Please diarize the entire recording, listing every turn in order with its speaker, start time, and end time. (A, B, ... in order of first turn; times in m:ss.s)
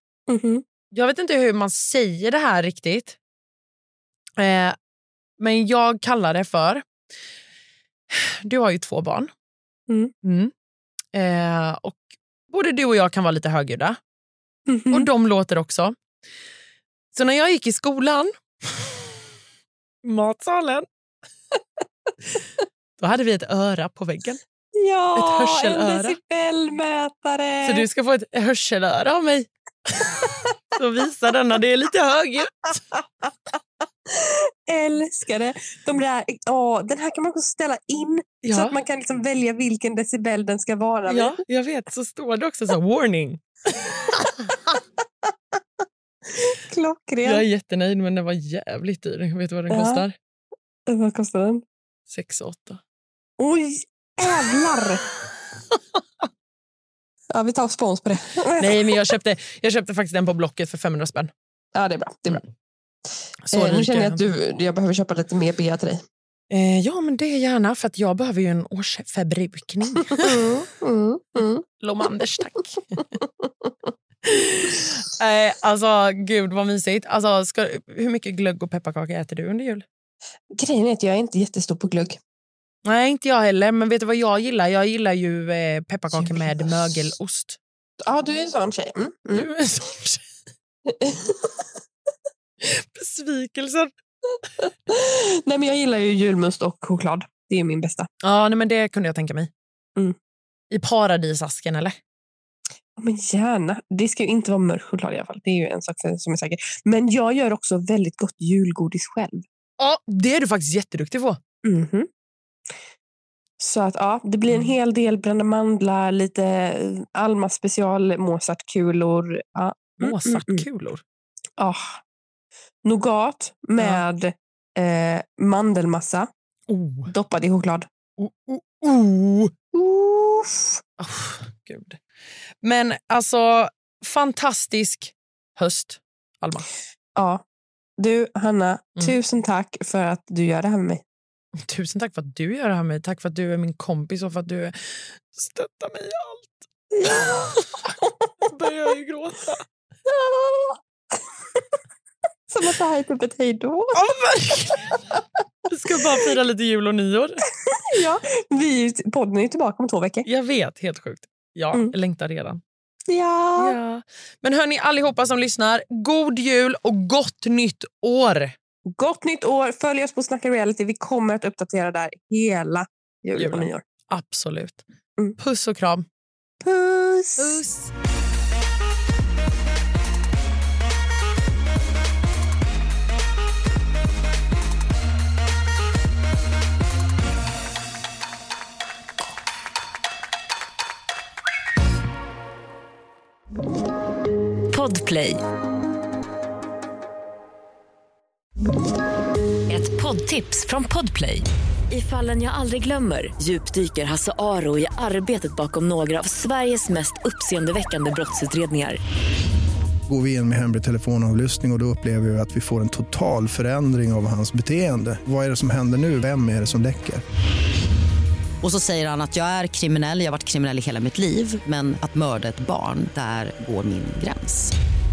0:00.3-0:00.6 A
0:00.9-0:03.2 B
0:04.4-0:04.7 B
0:05.4-0:06.8 B
0:08.1-0:09.3 B
0:10.2-0:10.5 B
0:11.1-0:14.0 B
0:14.7-0:15.1 A
0:14.9-0:15.9 B
0:17.1-0:19.0 B
0:20.0-0:20.8 B
0:23.0-0:24.4 B
0:24.8-0:27.8 A
0:25.1-0:26.2 B
0:27.6-0:32.8 B
0:34.1-0:41.4 A
0:38.4-0:38.8 B
0:41.0-0:44.6 B
0:46.4-0:47.4 A
0:47.2-0:50.1 B
0:49.7-0:50.0 A
0:50.9-0:51.6 A
0:52.1-0:52.8 B
0:53.4-0:55.0 A
0:57.3-0:58.9 A
0:58.6-1:01.3 B
1:01.7-1:02.4 A
1:03.5-1:04.2 B
1:03.5-1:06.0 A
1:06.5-1:10.5 B
1:10.2-1:11.6 A
1:11.8-1:13.0 B
1:13.2-1:13.7 A
1:14.2-1:19.8 B
1:20.5-1:22.2 A
1:22.8-1:27.6 B
1:26.1-1:26.7 A
1:28.0-1:29.5 A
1:29.3-1:30.2 B
1:30.9-1:31.6 A
1:32.6-1:33.9 B
1:34.9-1:38.1 A
1:38.2-1:39.5 B
1:40.7-1:42.0 B
1:43.0-1:49.4 A
1:49.8-1:51.4 B
1:51.6-1:52.1 A
1:53.6-2:00.6 A
1:54.5-1:54.8 B
2:00.0-2:01.0 B
2:01.6-2:02.0 A
2:02.8-2:06.3 A
2:03.8-2:04.0 B
2:06.7-2:07.1 B
2:07.1-2:07.9 A
2:08.2-2:09.5 B
2:09.7-2:10.8 A
2:11.0-2:12.0 B
2:12.6-2:16.7 B
2:17.2-2:17.4 A
2:18.0-2:21.0 A
2:21.6-2:27.8 B
2:27.0-2:27.5 A
2:28.5-2:29.6 B
2:30.1-2:30.8 A
2:32.5-2:34.0 A
2:34.0-2:35.0 B
2:35.7-2:37.4 B
2:37.9-2:40.2 A
2:40.2-2:42.6 B
2:43.1-2:43.8 A
2:43.6-2:48.5 B
2:48.9-2:53.8 A
2:53.3-2:54.8 B
2:55.4-2:56.0 B
2:56.6-2:57.6 A
2:57.4-2:57.9 B
3:14.7-3:15.4 C
3:19.7-3:29.0 C
3:30.1-3:37.2 D
3:38.6-3:44.7 E